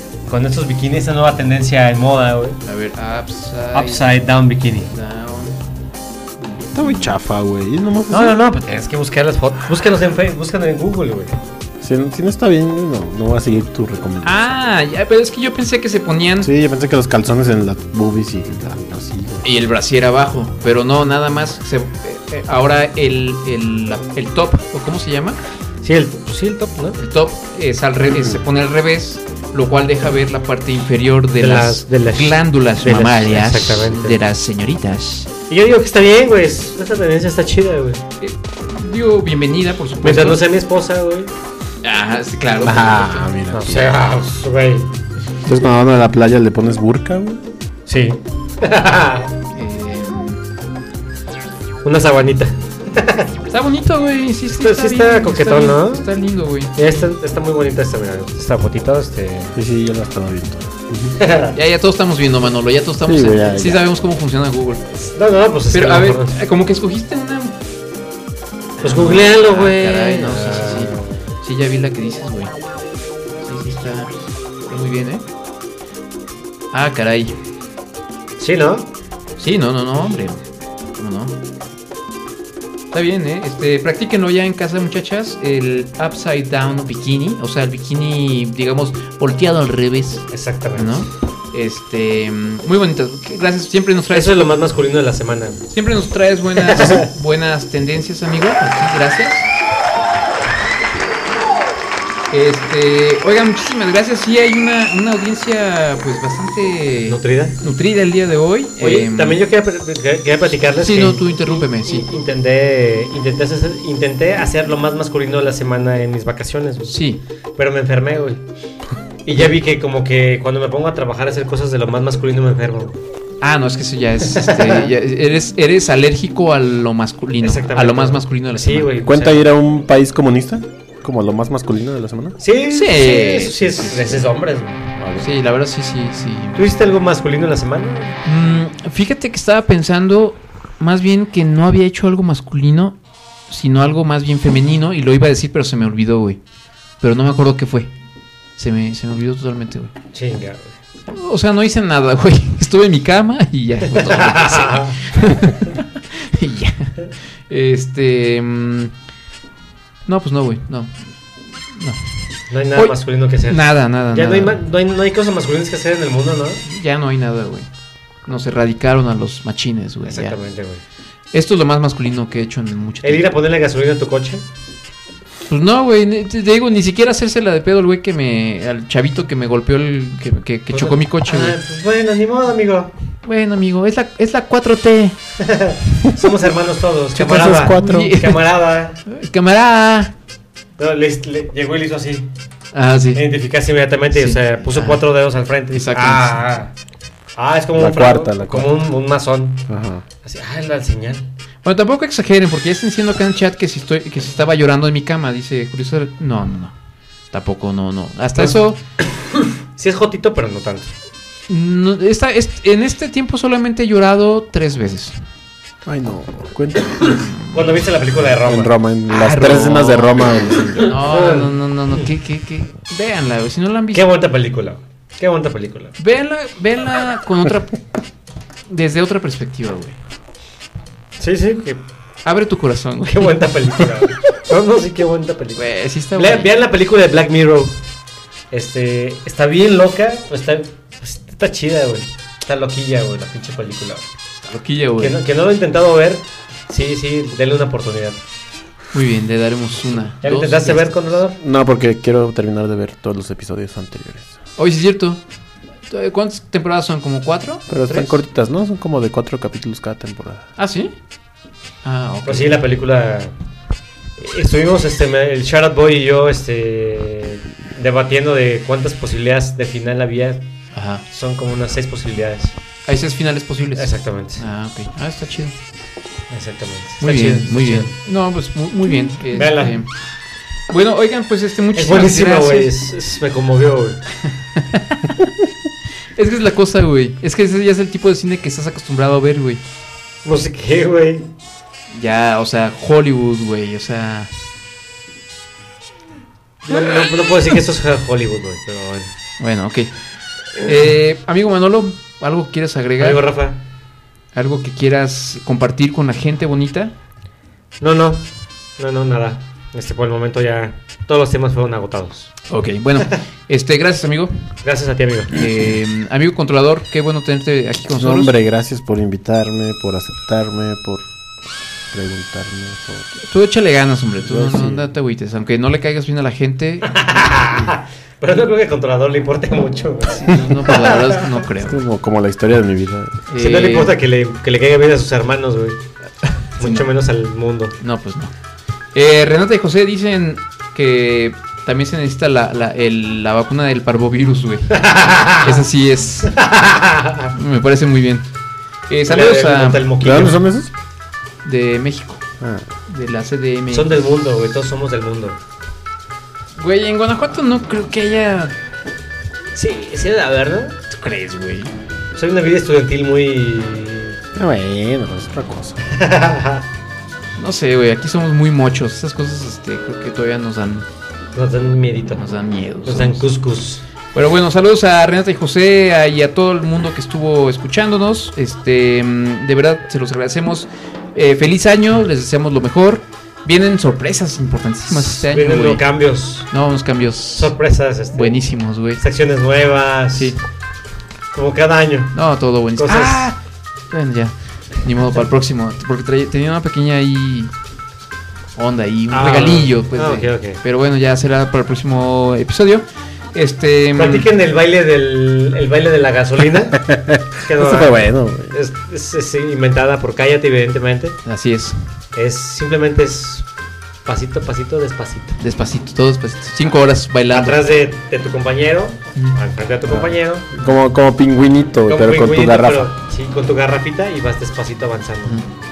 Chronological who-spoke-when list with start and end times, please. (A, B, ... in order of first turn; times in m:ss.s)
0:00.3-0:02.6 A
0:02.6-0:04.0 B
0:03.7-0:04.9 A
0:04.9-0:05.6 B
0:06.4-0:07.0 B
0:06.7-0:08.4 C
0:08.1-0:11.3 A
0:11.8-0:14.4 C
0:14.2-0:16.5 B
0:16.4-0:19.4 C
0:19.4-0:25.4 B
0:25.8-0:27.0 A
0:27.0-0:35.3 B
0:31.4-0:34.2 A
0:35.5-0:38.0 A
0:38.2-0:40.4 B
0:40.0-0:41.3 A
0:41.8-0:43.3 B
0:42.6-0:43.9 C
0:43.5-0:44.9 A
0:45.4-0:47.4 C
0:47.9-0:49.3 A
0:49.5-0:50.4 B
0:51.8-0:53.3 A
0:53.5-0:57.1 B
0:54.5-0:56.1 A
0:56.8-0:59.6 A
0:59.6-1:01.2 C
1:01.2-1:01.6 A
1:01.5-1:04.8 B
1:03.1-1:03.8 C
1:05.0-1:06.4 A
1:05.7-1:07.6 B
1:08.8-1:12.5 B
1:08.8-1:11.1 A
1:13.4-1:14.1 B
1:14.6-1:15.2 B
1:16.7-1:17.4 B
1:18.4-1:18.9 A
1:19.4-1:20.4 B
1:21.0-1:21.4 B
1:22.9-1:34.6 B
1:30.3-1:31.1 A
1:34.1-1:35.7 A
1:35.7-1:39.5 B
1:36.7-1:37.1 A
1:42.3-1:49.4 B
1:47.1-1:47.6 A
1:48.8-1:57.0 A
1:50.8-1:52.0 B
1:56.9-1:57.2 B
1:57.6-1:58.4 A
1:59.2-2:03.0 A
2:03.4-2:08.9 B
2:04.3-2:04.9 A
2:07.4-2:09.4 A
2:09.0-2:12.4 C
2:12.4-2:14.8 A
2:12.7-2:14.3 B
2:15.0-2:15.3 C
2:15.2-2:16.6 B
2:16.6-2:18.2 A
2:18.2-2:23.0 B
2:23.5-2:26.4 B
2:27.0-2:27.9 B
2:28.6-2:29.9 B
2:30.1-2:30.7 A
2:31.1-2:38.9 B
2:33.9-2:35.0 A
2:40.1-2:41.1 B
2:41.7-2:42.0 B
2:42.5-2:46.6 A
2:43.5-2:44.6 B
2:46.6-2:47.7 B
2:48.3-2:50.4 B
2:50.1-2:50.8 A
2:51.3-2:53.2 B
2:53.0-2:54.4 A
2:55.5-3:01.6 B
3:00.7-3:02.9 A
3:03.2-3:05.2 B
3:05.4-3:09.0 A
3:07.2-3:08.1 C
3:07.4-3:08.4 B
3:09.1-3:10.1 B
3:10.8-3:12.3 A
3:12.7-3:13.2 B
3:13.2-3:16.7 A
3:14.1-3:15.0 B
3:15.8-3:16.6 B
3:17.4-3:19.6 A
3:17.8-3:18.7 C
3:19.7-3:20.0 C
3:20.2-3:21.3 A
3:21.6-3:26.7 B
3:27.3-3:28.8 B
3:29.8-3:30.9 A
3:31.5-3:35.2 B
3:35.8-3:37.2 C
3:37.2-3:37.6 B
3:37.5-3:38.7 A
3:38.4-3:41.0 C
3:39.1-3:44.1 B
3:40.9-3:41.5 A
3:43.9-3:46.0 A
3:46.0-3:47.8 B
3:48.7-3:50.0 B
3:51.2-3:51.8 A
3:52.2-3:53.5 B
3:53.1-3:57.8 A
3:55.6-3:56.5 B
3:58.5-4:04.1 A
4:04.4-4:05.2 B
4:05.0-4:08.2 A
4:08.9-4:11.2 B
4:10.2-4:11.4 A
4:11.4-4:14.4 C
4:14.6-4:15.2 B
4:15.9-4:18.2 B
4:17.7-4:20.5 C
4:20.6-4:20.9 B
4:21.8-4:22.6 B
4:22.2-4:23.3 A
4:24.2-4:30.4 A
4:30.7-4:31.0 B
4:31.1-4:32.6 A
4:32.9-4:35.5 B
4:33.8-4:34.4 A
4:36.3-4:37.9 A
4:37.0-4:39.9 B
4:39.3-4:39.8 A
4:40.7-4:42.7 B
4:41.8-4:44.0 A
4:44.3-4:45.2 B
4:46.1-4:49.6 B
4:50.2-4:51.3 A
4:51.9-4:54.3 B
4:56.6-4:59.1 A
4:59.4-5:00.0 B
5:00.5-5:03.2 B
5:03.0-5:03.6 A
5:04.3-5:06.9 B
5:07.8-5:12.4 A
5:12.5-5:14.4 B
5:14.6-5:15.3 A
5:15.3-5:18.3 B
5:18.0-5:21.1 C
5:21.9-5:23.1 C
5:23.2-5:26.9 B
5:24.2-5:24.9 C
5:26.9-5:31.4 A
5:30.2-5:31.8 B
5:31.6-5:33.2 C
5:33.3-5:33.9 B
5:33.4-5:35.8 A
5:36.6-5:36.8 B
5:36.6-5:37.8 A
5:37.8-5:38.3 B
5:38.9-5:44.8 B
5:44.7-5:45.6 A
5:45.4-5:46.4 B
5:46.3-5:47.3 A
5:47.3-5:48.3 B
5:48.9-5:49.8 B
5:49.1-5:50.4 A
5:50.0-5:50.7 C
5:51.4-5:52.2 B
5:52.4-5:52.6 C
5:52.9-5:54.0 B
5:53.7-5:55.4 A
5:56.6-5:58.6 B
5:59.6-6:00.8 A
6:00.9-6:01.7 B
6:02.2-6:04.2 A
6:04.4-6:05.8 C
6:05.9-6:06.6 A
6:07.4-6:10.9 B
6:11.4-6:12.2 A
6:12.1-6:13.2 B
6:12.9-6:13.8 A
6:14.1-6:25.8 B
6:24.9-6:26.5 A
6:26.5-6:27.5 B
6:27.4-6:28.4 A
6:28.1-6:29.0 B
6:29.0-6:30.4 A
6:31.3-6:32.2 A
6:32.1-6:33.4 B
6:32.8-6:33.3 A
6:33.9-6:37.5 B
6:38.6-6:44.3 B
6:39.1-6:40.6 A
6:44.0-6:46.8 A
6:46.8-6:48.6 C
6:47.4-6:51.2 A
6:51.3-6:51.8 B
6:52.2-6:53.4 A
6:54.1-6:55.4 A
6:55.4-6:57.6 B
6:57.3-7:00.5 A
6:59.9-7:02.9 C
7:01.9-7:05.4 A